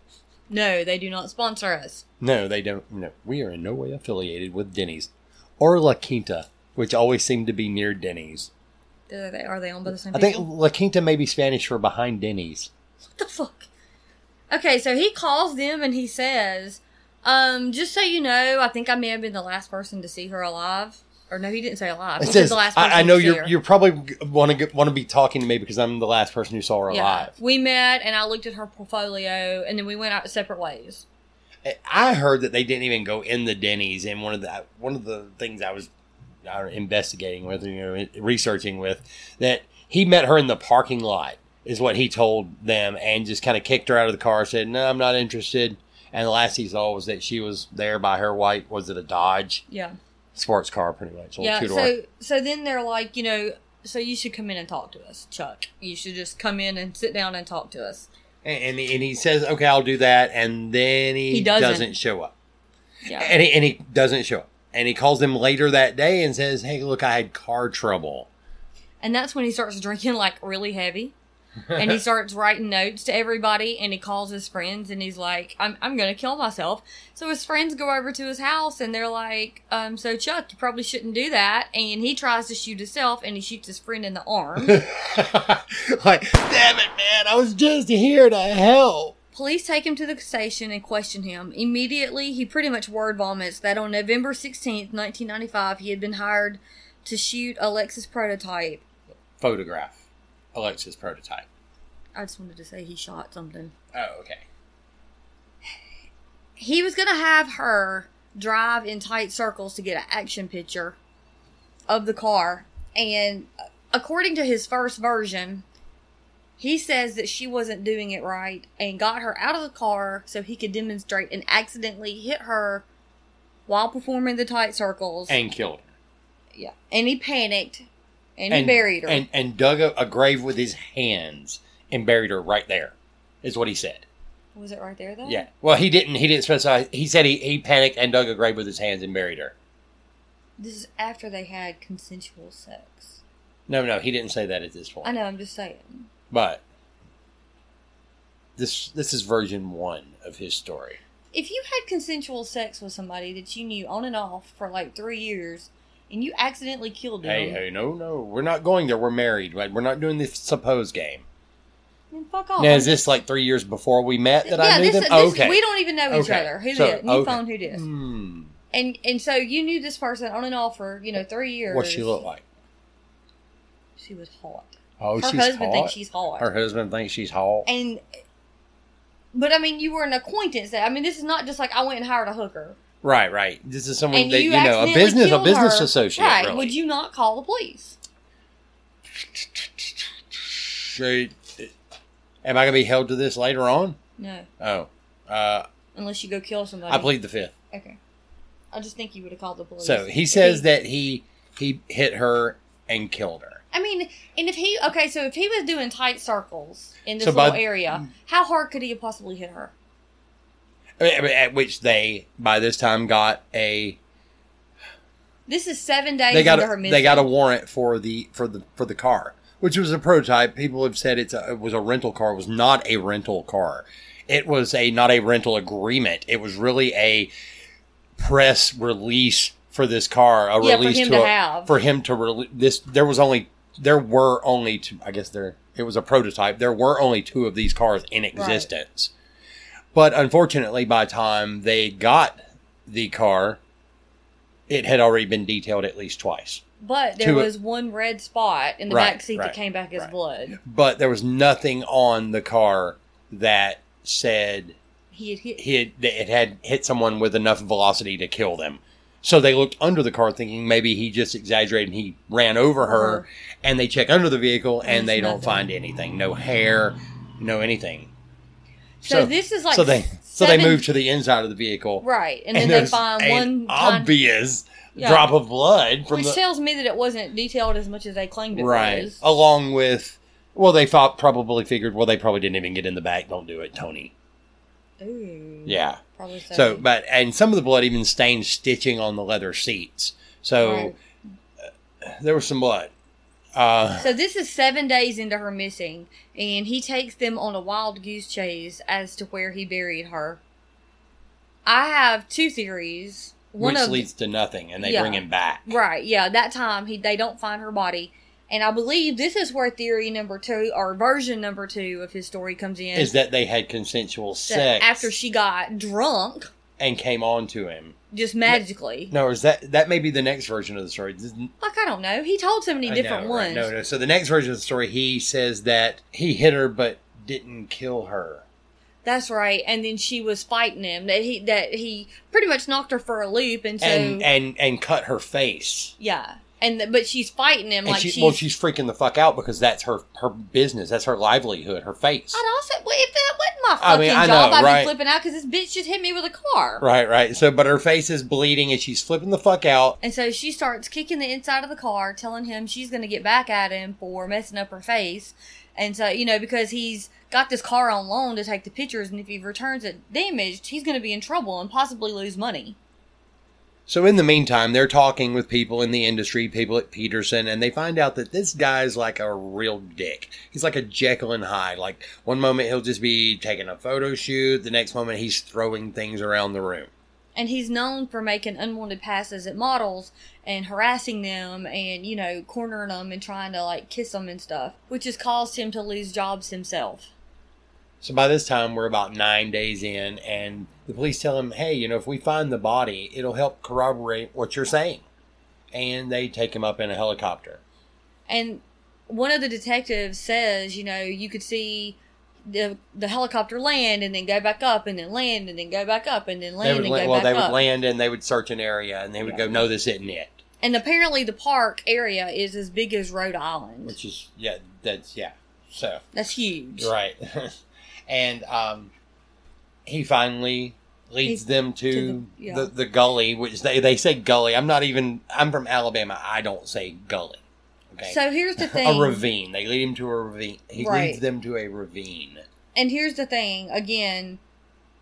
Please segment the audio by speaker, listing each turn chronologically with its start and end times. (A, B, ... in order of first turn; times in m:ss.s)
0:00.5-0:02.0 A
0:02.2-0:08.5 B
0:09.1-0:10.5 A
0:10.1-0:12.7 B
0:13.2-0:13.7 A
0:14.5-0:23.5 A
0:22.2-0:27.3 B
0:26.9-0:31.0 A
0:31.6-0:35.9 B
0:36.4-0:49.6 B
0:49.7-0:50.0 A
0:50.4-0:51.9 B
0:51.4-0:58.1 A
0:58.4-1:02.3 B
1:01.3-1:01.9 A
1:03.0-1:03.3 A
1:03.1-1:08.3 B
1:09.0-1:11.1 A
1:11.7-1:24.8 A
1:24.6-1:29.2 B
1:29.3-1:38.8 A
1:39.4-1:40.0 B
1:40.5-1:41.5 B
1:42.2-1:43.7 A
1:43.9-1:44.4 B
1:46.6-1:51.0 A
1:51.9-1:55.6 A
1:56.6-2:02.8 A
2:03.7-2:05.4 A
2:05.3-2:05.8 B
2:06.5-2:09.2 A
2:08.5-2:14.1 B
2:14.6-2:15.5 A
2:15.2-2:19.6 B
2:20.6-2:23.2 A
2:23.7-2:25.1 B
2:25.0-2:26.1 A
2:26.3-2:26.6 B
2:28.6-2:31.0 B
2:31.3-2:37.6 A
2:37.2-2:41.2 B
2:42.1-2:43.0 A
2:42.6-2:48.5 B
2:44.4-2:47.8 A
2:48.7-2:52.2 A
2:51.7-2:52.4 B
2:54.0-2:56.5 A
2:55.0-2:57.7 B
2:57.7-2:58.0 A
2:59.3-3:02.8 A
3:03.0-3:06.8 B
3:04.1-3:08.0 A
3:09.3-3:11.7 B
3:12.4-3:14.0 B
3:14.2-3:14.5 A
3:14.6-3:15.7 B
3:16.0-3:17.1 A
3:16.9-3:17.5 B
3:17.7-3:18.0 A
3:18.7-3:20.7 A
3:19.8-3:23.6 B
3:23.7-3:29.7 A
3:27.2-3:28.0 B
3:31.0-3:34.0 B
3:35.5-3:37.3 A
3:36.3-3:47.3 B
3:48.2-3:59.1 B
3:50.6-3:51.7 A
3:58.4-3:58.7 A
3:59.9-4:03.6 B
4:04.7-4:06.6 B
4:06.8-4:10.6 A
4:07.2-4:07.5 B
4:08.9-4:14.8 B
4:15.1-4:15.6 A
4:15.6-4:28.1 B
4:22.8-4:23.3 A
4:24.8-4:25.7 A
4:29.0-4:30.8 A
4:29.0-4:36.4 B
4:32.0-4:34.1 A
4:35.0-4:35.3 A
4:36.1-4:39.2 A
4:38.5-4:44.1 B
4:45.0-4:46.8 A
4:45.7-4:46.0 B
4:46.5-4:51.0 B
4:50.6-4:51.0 A
4:52.0-4:52.9 B
4:53.6-4:54.1 B
4:54.0-5:00.4 A
5:01.6-5:04.1 A
5:03.6-5:05.7 B
5:04.8-5:13.1 A
5:13.0-5:15.1 B
5:14.5-5:16.5 A
5:16.8-5:18.0 B
5:18.1-5:19.1 A
5:18.5-5:21.5 B
5:21.6-5:23.7 A
5:22.8-5:28.4 B
5:29.0-5:34.3 A
5:33.8-5:36.0 B
5:36.0-5:38.4 A
5:37.8-5:42.4 B
5:42.3-5:46.8 A
5:43.8-5:44.9 B
5:46.8-5:50.0 B
5:50.0-6:02.8 A
6:03.9-6:16.9 B
6:17.4-6:27.1 A
6:28.0-6:35.0 B
6:35.7-6:37.6 B
6:38.3-6:47.6 A
6:46.6-6:50.4 B
6:49.2-6:49.7 A
6:50.6-6:54.0 A
6:53.8-6:56.0 B
6:56.1-6:56.9 A
6:56.8-6:58.9 B
6:59.9-7:07.4 B
7:01.2-7:02.7 A
7:07.9-7:12.4 B
7:08.0-7:09.2 A
7:10.8-7:11.2 A
7:12.8-7:14.4 A